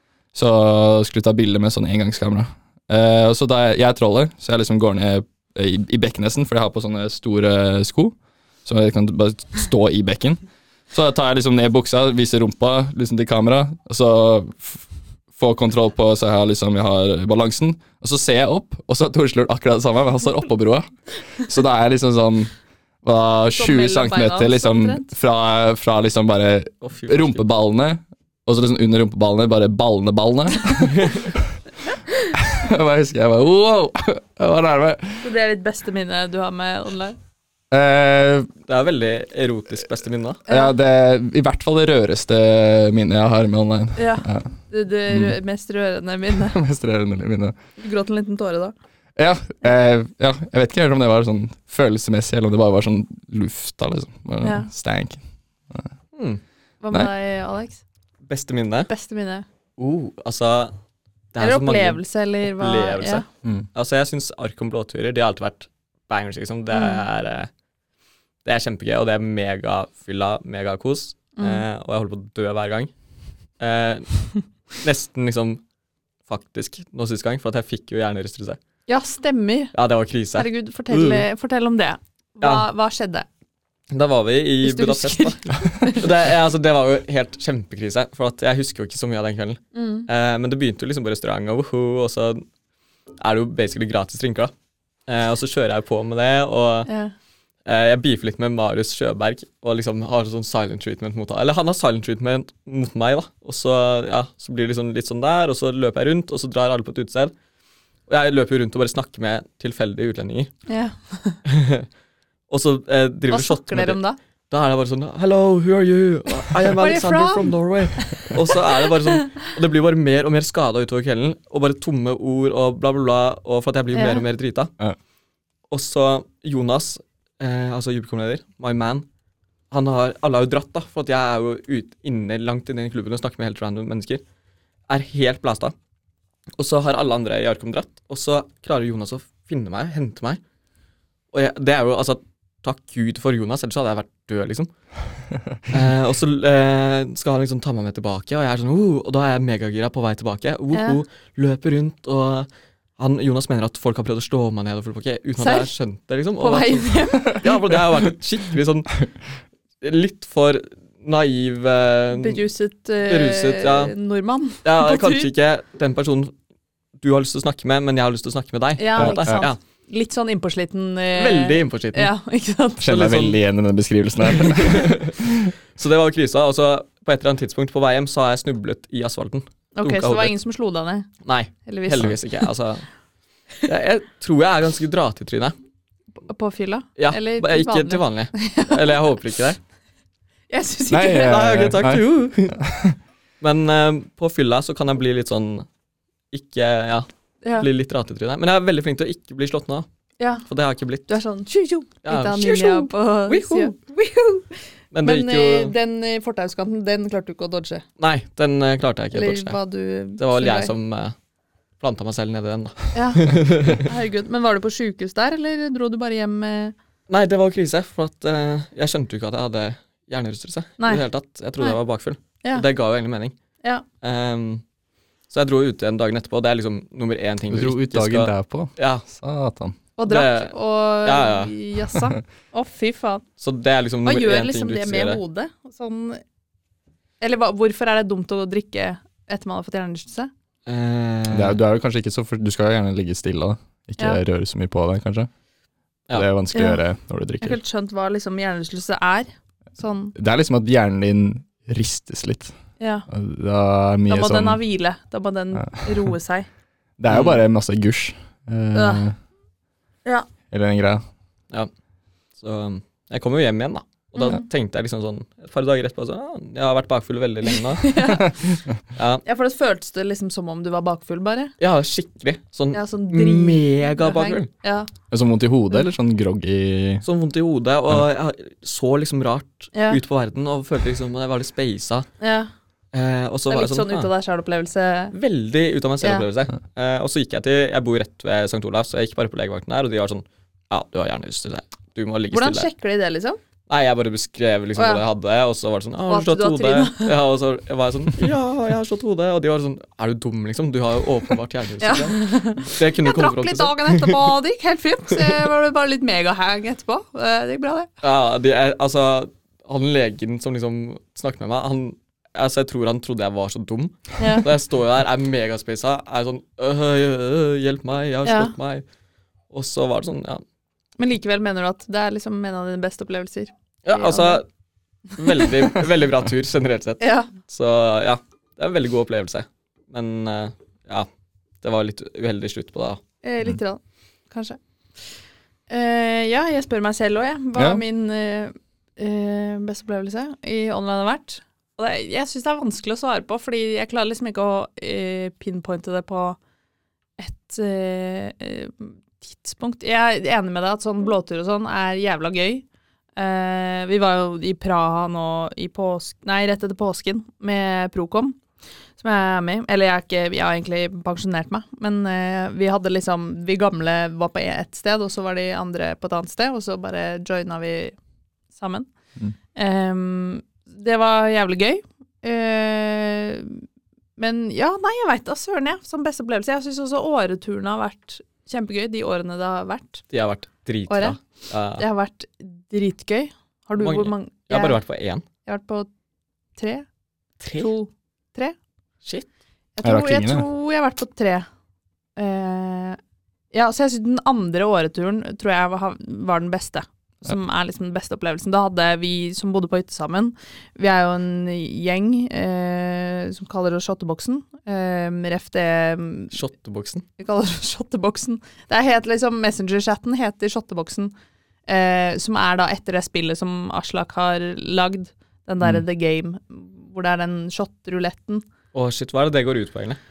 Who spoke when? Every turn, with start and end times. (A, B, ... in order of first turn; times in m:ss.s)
0:00.3-0:22.5 A
0:23.0-0:31.5 A
0:23.5-0:25.1 B
0:26.8-0:27.4 C
0:31.0-0:31.2 C
0:32.0-0:32.3 B
0:32.4-0:35.3 A
0:35.2-0:37.2 B
0:37.7-0:38.5 A
0:38.7-0:40.4 C
0:40.5-0:40.7 B
0:40.5-0:45.4 A
0:44.0-0:46.6 B
0:46.5-0:47.6 A
0:47.8-0:48.7 B
0:49.2-0:55.9 A
0:54.4-0:54.7 B
0:56.2-0:56.4 C
0:56.8-0:57.8 B
0:58.3-0:58.9 C
0:58.9-0:59.4 B
0:59.8-1:00.8 C
1:01.3-1:07.5 C
1:01.4-1:03.2 B
1:06.7-1:07.0 B
1:08.4-1:12.9 C
1:11.4-1:11.6 B
1:13.6-1:15.6 C
1:16.3-1:18.6 C
1:18.9-1:19.7 B
1:19.7-1:21.3 C
1:20.4-1:23.3 B
1:22.4-1:22.7 C
1:23.9-1:32.5 C
1:24.6-1:26.0 B
1:29.7-1:30.1 B
1:33.2-1:34.5 C
1:35.1-1:36.9 C
1:36.9-1:37.1 B
1:37.7-1:47.3 C
1:48.1-1:50.5 C
1:50.7-1:51.4 B
1:51.5-1:51.9 C
1:52.5-1:54.0 C
1:53.3-1:54.2 B
1:54.5-2:04.7 C
1:56.8-1:58.4 B
2:03.9-2:04.2 B
2:05.7-2:09.1 C
2:09.7-2:14.2 C
2:14.9-2:15.7 C
2:16.6-2:20.4 C
2:21.3-2:24.7 C
2:25.7-2:39.1 C
2:30.7-2:31.0 B
2:35.4-2:35.7 B
2:36.4-2:37.4 B
2:39.8-2:42.4 C
2:42.1-2:45.3 B
2:43.0-2:43.9 C
2:44.6-2:46.3 C
2:47.0-2:49.6 C
2:48.8-2:52.9 B
2:49.0-2:49.4 A
2:51.2-2:52.1 C
2:52.8-2:55.5 A
2:52.9-2:53.4 C
2:54.3-2:55.1 C
2:55.8-3:00.3 C
2:59.8-3:01.1 B
3:01.2-3:02.9 C
3:01.7-3:02.4 B
3:03.6-3:05.6 C
3:06.2-3:09.0 B
3:07.0-3:09.6 C
3:10.5-3:11.4 B
3:10.9-3:13.0 A
3:11.2-3:12.6 C
3:13.4-3:15.7 C
3:16.3-3:19.9 C
3:20.5-3:21.1 C
3:21.1-3:27.8 B
3:22.0-3:23.7 C
3:24.9-3:25.7 C
3:28.0-3:29.6 C
3:29.1-3:30.7 B
3:30.2-3:31.2 C
3:31.8-3:33.9 C
3:32.9-3:36.8 B
3:37.1-3:43.4 C
3:40.8-3:41.1 B
3:44.0-3:44.6 C
3:45.3-3:49.1 C
3:47.5-3:49.8 A
3:50.0-3:53.2 B
3:50.1-3:51.6 C
3:53.4-3:55.2 C
3:54.0-3:56.2 B
3:57.2-4:00.3 B
4:00.7-4:01.6 C
4:01.3-4:05.3 A
4:06.1-4:07.6 A
4:06.5-4:06.8 B
4:07.4-4:10.2 B
4:10.2-4:12.6 A
4:12.8-4:13.1 B
4:13.1-4:14.6 A
4:14.1-4:16.5 B
4:15.5-4:16.1 A
4:17.0-4:19.2 A
4:17.1-4:17.4 C
4:18.7-4:19.1 B
4:20.5-4:21.0 A
4:22.4-4:28.0 C
4:24.1-4:24.4 B
4:27.8-4:28.4 B
4:28.9-4:29.2 C
4:29.2-4:31.5 B
4:31.6-4:34.5 C
4:32.7-4:34.9 B
4:35.1-4:37.0 A
4:37.0-4:42.1 C
4:39.7-4:40.0 B
4:42.2-4:42.5 B
4:42.9-4:44.1 C
4:43.5-4:45.2 B
4:45.1-4:52.7 C
4:52.3-4:53.4 B
4:53.7-5:04.3 C
4:54.8-4:55.0 B
4:56.1-4:57.1 B
5:01.8-5:07.9 B
5:08.0-5:18.8 C
5:14.2-5:14.4 B
5:18.3-5:18.5 B
5:19.5-5:20.4 C
5:21.0-5:24.4 B
5:23.8-5:24.4 C
5:25.2-5:31.1 C
5:27.0-5:27.3 B
5:31.6-5:33.0 C
5:33.2-5:34.6 B
5:35.7-5:46.4 B
5:37.6-5:37.8 A
5:47.2-5:52.6 B
5:53.2-5:58.4 B
5:59.0-6:08.0 B
6:08.5-6:08.9 B
6:09.6-6:13.6 B
6:14.2-6:20.0 B
6:20.1-6:21.8 C
6:20.9-6:21.2 B
6:21.8-6:24.8 B
6:23.8-6:25.2 C
6:25.4-6:25.9 B
6:26.6-6:26.8 B
6:27.4-6:27.7 C
6:27.6-6:28.6 B
6:29.8-6:31.5 B
6:29.8-6:30.4 A
6:32.2-6:33.0 B
6:33.5-6:46.4 B
6:46.3-6:47.1 C
6:47.2-6:51.1 B
6:51.7-6:58.4 B
6:58.7-7:00.0 C